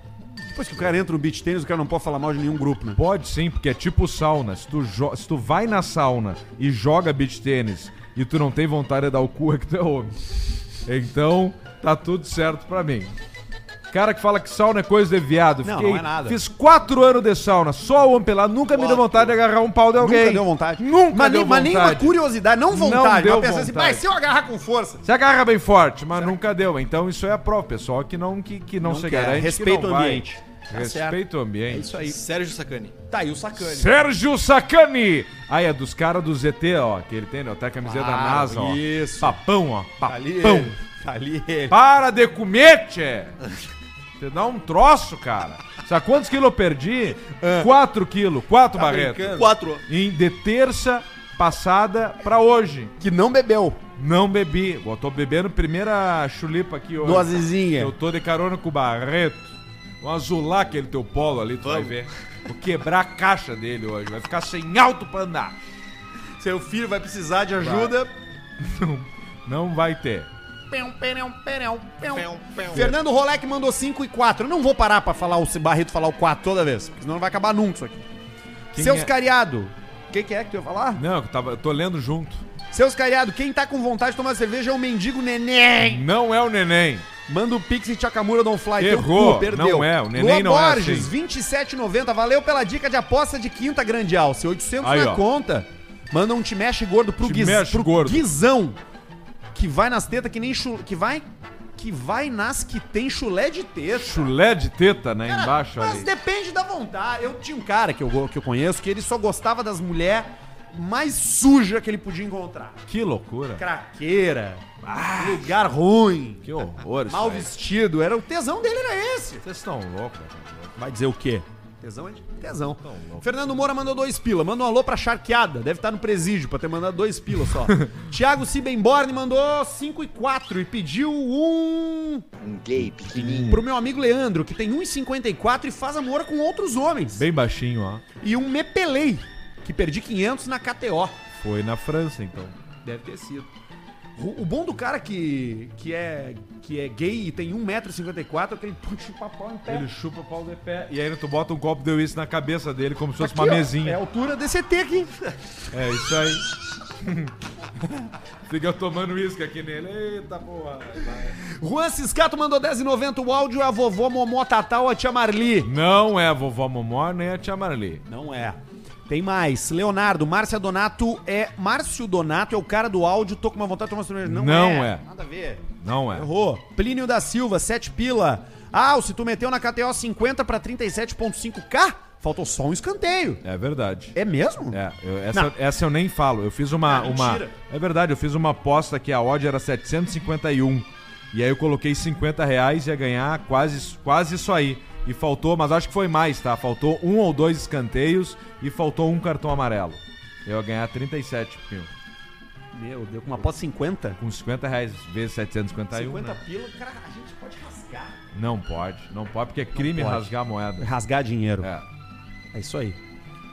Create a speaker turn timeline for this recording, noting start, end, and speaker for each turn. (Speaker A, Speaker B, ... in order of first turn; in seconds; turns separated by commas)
Speaker A: 0.5-3.0, Speaker B: 3.0-10.2, Speaker B: 10.8-13.1, Speaker B: 13.9-22.2, Speaker A: 15.6-16.4, Speaker A: 18.7-19.4, Speaker A: 20.0-25.0, Speaker B: 22.7-24.0, Speaker B: 25.0-32.0, Speaker A: 28.8-32.2, Speaker C: 32.0-32.9, Speaker A: 33.1-33.9, Speaker B: 33.5-40.7, Speaker A: 37.8-39.4, Speaker A: 40.0-41.8, Speaker B: 41.7-43.4, Speaker B: 44.2-52.9, Speaker A: 47.4-47.7, Speaker A: 48.8-49.5, Speaker C: 49.0-49.8, Speaker A: 53.0-53.8, Speaker B: 54.0-65.7, Speaker A: 57.0-57.9, Speaker C: 61.6-62.1, Speaker A: 66.4-68.1, Speaker B: 67.6-67.9, Speaker B: 68.6-70.3, Speaker A: 70.7-78.0, Speaker C: 72.1-72.9, Speaker B: 78.7-79.1, Speaker A: 78.7-81.0, Speaker B: 80.9-82.4, Speaker A: 82.7-86.0, Speaker B: 85.8-87.1, Speaker A: 87.3-98.8, Speaker B: 88.8-91.1, Speaker B: 94.8-95.2, Speaker B: 97.2-98.3, Speaker A: 99.5-101.2, Speaker A: 101.8-104.3, Speaker B: 103.9-106.1, Speaker A: 105.3-112.8, Speaker B: 112.9-113.6, Speaker A: 113.6-114.6, Speaker B: 114.8-115.5, Speaker A: 115.2-119.4, Speaker B: 116.4-117.5, Speaker B: 119.4-120.8, Speaker A: 120.8-132.2, Speaker B: 122.6-123.3, Speaker C: 132.4-133.4, Speaker B: 132.8-133.7, Speaker A: 133.0-137.2, Speaker B: 137.1-138.0, Speaker A: 138.2-141.1, Speaker B: 141.4-142.6, Speaker A: 142.8-143.5, Speaker A: 144.2-149.9, Speaker B: 149.7-154.0, Speaker A: 153.2-155.1, Speaker B: 155.7-156.4, Speaker B: 157.0-161.3, Speaker A: 161.6-165.7, Speaker B: 165.6-168.0, Speaker A: 168.1-183.4, Speaker B: 174.2-175.0, Speaker B: 175.8-176.3, Speaker B: 183.4-184.2, Speaker A: 184.1-184.8, Speaker B: 184.7-201.9, Speaker A: 186.8-187.5, Speaker A: 202.7-204.2, Speaker B: 204.2-206.4, Speaker A: 205.9-208.1, Speaker B: 208.3-210.9, Speaker A: 209.7-211.7, Speaker B: 211.6-211.8, Speaker A: 212.5-213.0